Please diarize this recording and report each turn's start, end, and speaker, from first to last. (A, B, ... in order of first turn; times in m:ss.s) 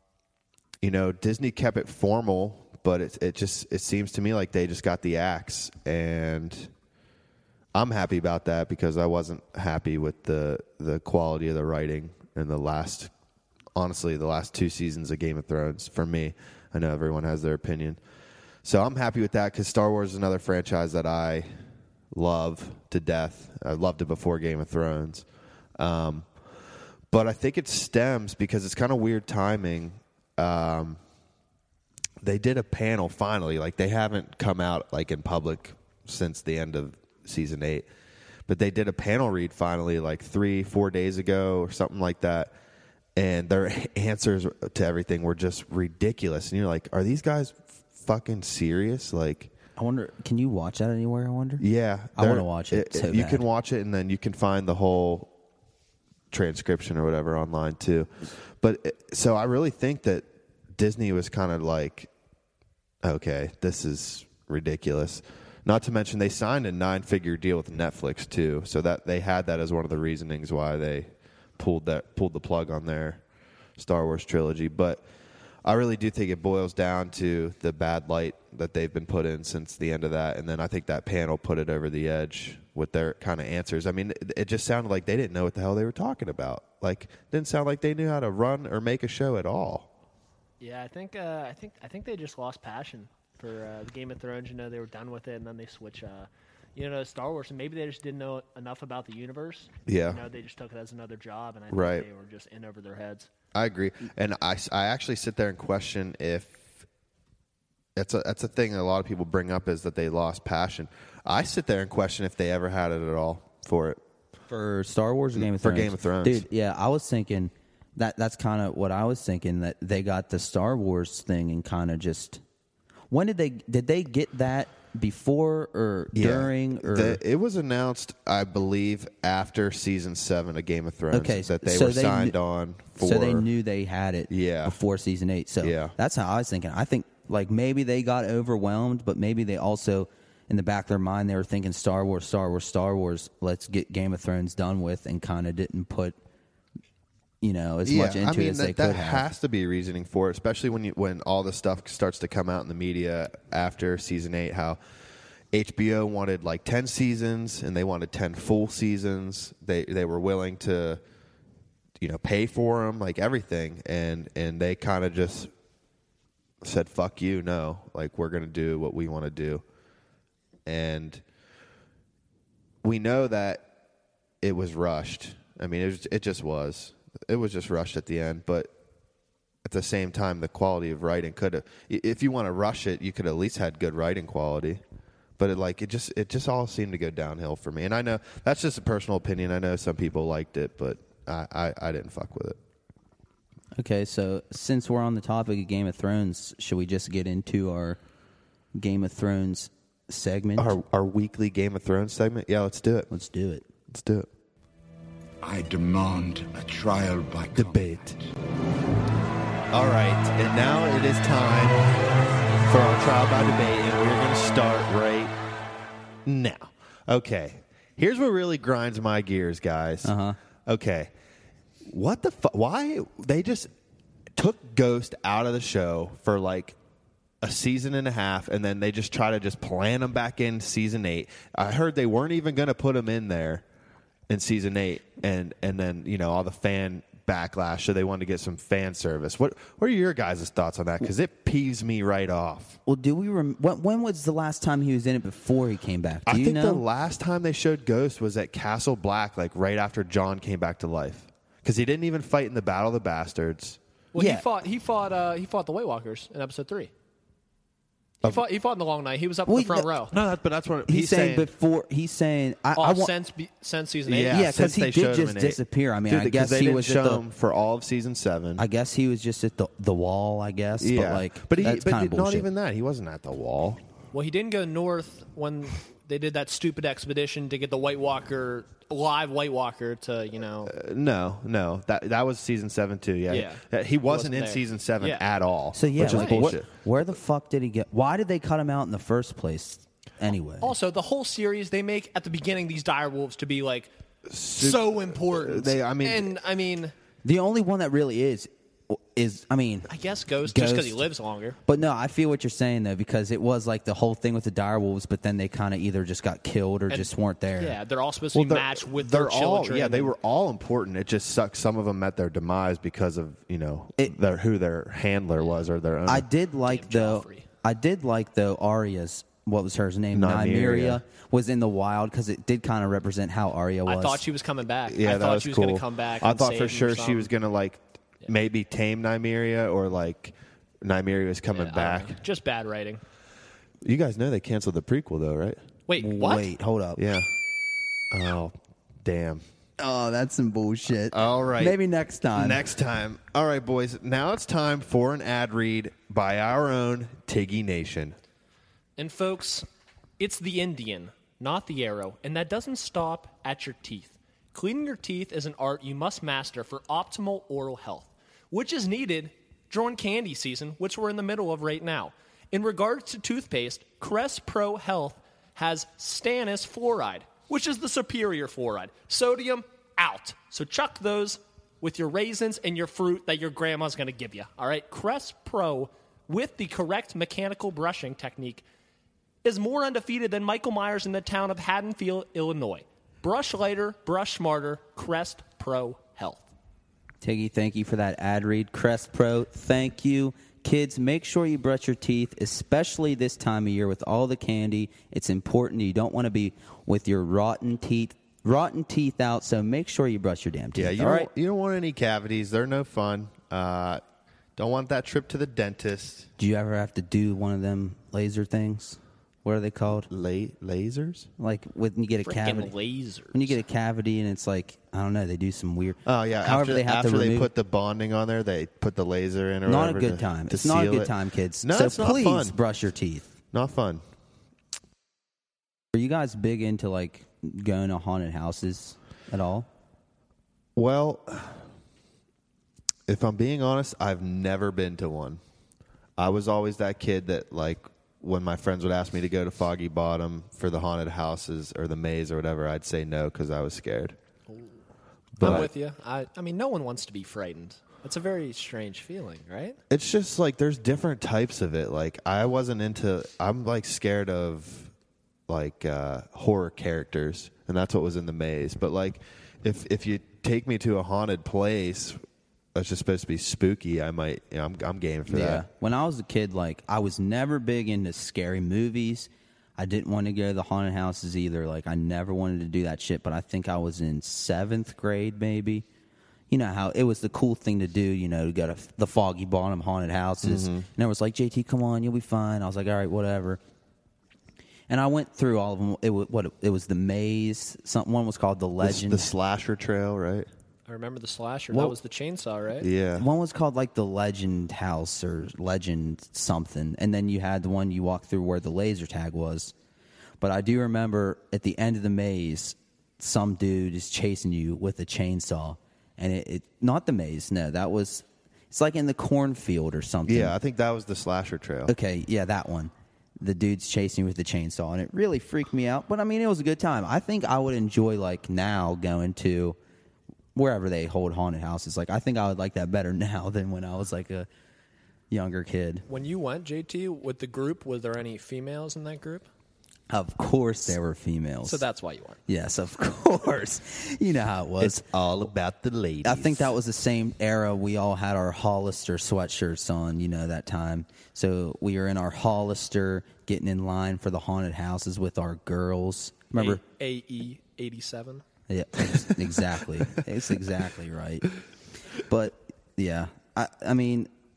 0:00.8-0:06.7 A
0:07.7-0:13.1 A
0:13.8-0:18.0 A
0:18.6-0:21.5 A
0:22.1-0:25.3 A
0:25.8-0:26.3 A
0:27.1-0:31.0 A
0:32.2-0:37.9 A
0:38.5-0:42.5 A
0:43.2-0:49.5 A
0:49.8-0:51.6 B
0:51.6-0:55.3 A
0:52.2-0:53.4 B
0:56.3-1:02.1 A
1:03.0-1:13.2 A
1:13.8-1:15.0 A
1:15.6-1:29.9 A
1:30.6-1:43.3 C
1:39.9-1:40.2 A
1:41.7-1:42.1 A
1:43.5-1:46.8 A
1:48.0-1:54.0 A
1:54.5-2:02.4 B
1:55.4-1:56.4 A
2:03.1-2:07.2 B
2:06.1-2:13.5 A
2:11.1-2:12.4 B
2:13.0-2:26.2 B
2:14.3-2:14.8 A
2:15.6-2:15.9 A
2:27.4-2:29.2 B
2:27.9-2:34.8 A
2:35.5-2:41.0 A
2:42.0-2:45.5 A
2:46.6-2:49.6 A
2:50.6-2:51.2 A
2:52.8-2:53.7 A
2:54.4-2:58.7 A
2:59.6-3:04.8 A
3:05.4-3:12.6 A
3:13.8-3:18.0 B
3:18.7-3:20.8 B
3:20.6-3:23.1 A
3:23.1-3:23.6 B
3:23.9-3:24.3 A
3:25.4-3:28.2 D
3:27.6-3:28.2 A
3:29.7-3:31.8 A
3:32.6-3:35.3 A
3:36.3-3:40.1 A
3:40.0-3:40.4 B
3:40.6-3:41.1 A
3:41.8-3:43.7 A
3:44.4-3:46.8 A
3:47.4-3:53.6 A
3:54.3-4:02.8 A
4:02.9-4:06.8 B
4:06.3-4:13.8 A
4:14.1-4:16.9 C
4:14.2-4:14.4 B
4:18.2-4:20.2 C
4:19.5-4:19.9 B
4:20.1-4:21.5 A
4:20.9-4:23.1 B
4:22.8-4:24.4 C
4:24.1-4:28.6 A
4:24.3-4:27.2 B
4:28.6-4:32.5 B
4:30.8-4:33.8 A
4:34.1-4:40.7 C
4:40.6-4:47.0 A
4:43.3-4:45.3 C
4:45.7-4:50.7 B
4:46.0-4:46.5 C
4:50.6-4:53.9 C
4:54.3-4:56.4 A
4:54.6-4:56.9 C
4:57.2-4:59.9 B
4:59.9-5:01.6 C
5:00.4-5:01.0 B
5:01.6-5:07.8 B
5:06.9-5:10.1 C
5:08.3-5:16.3 A
5:16.1-5:24.2 B
5:16.7-5:17.5 C
5:20.1-5:21.0 A
5:23.9-5:27.3 C
5:24.9-5:32.2 A
5:31.5-5:33.0 C
5:33.8-5:35.6 A
5:35.9-5:36.5 C
5:36.0-5:37.0 B
5:37.0-5:37.4 A
5:38.1-5:39.4 A
5:39.8-5:42.6 B
5:41.1-5:41.8 A
5:42.3-5:48.2 A
5:49.0-5:49.6 C
5:50.2-6:18.6 C
6:19.4-6:26.5 C
6:27.2-6:41.3 B
6:40.8-6:44.0 A
6:44.6-6:46.3 A
6:46.4-6:50.1 B
6:50.1-6:51.3 A
6:51.4-6:52.7 B
6:52.2-6:53.6 C
6:53.3-6:57.5 B
6:56.0-7:02.6 A
6:59.6-7:03.3 B
7:03.5-7:04.0 A
7:05.9-7:09.7 B
7:10.8-7:11.6 A
7:13.1-7:15.4 A
7:16.2-7:24.2 A
7:24.5-7:24.8 C
7:25.4-7:25.7 A
7:25.4-7:29.8 C
7:29.9-7:34.9 A
7:35.5-7:42.2 A
7:42.8-7:45.6 A
7:45.3-7:55.9 B
7:56.5-8:03.6 B
8:00.4-8:00.9 A
8:04.9-8:09.3 B
8:08.8-8:10.5 A
8:10.9-8:12.9 C
8:12.8-8:13.3 A
8:13.2-8:19.7 B
8:20.4-8:30.6 B
8:30.3-8:31.9 A
8:31.9-8:39.8 B
8:40.6-8:44.5 B
8:45.3-8:46.1 B
8:46.1-8:49.4 C
8:50.1-8:51.8 B
8:51.6-8:52.4 C
8:52.5-8:55.1 B
8:54.8-8:56.7 A
8:56.2-9:06.8 B
9:06.6-9:08.4 C
9:08.7-9:11.5 B
9:12.2-9:14.3 B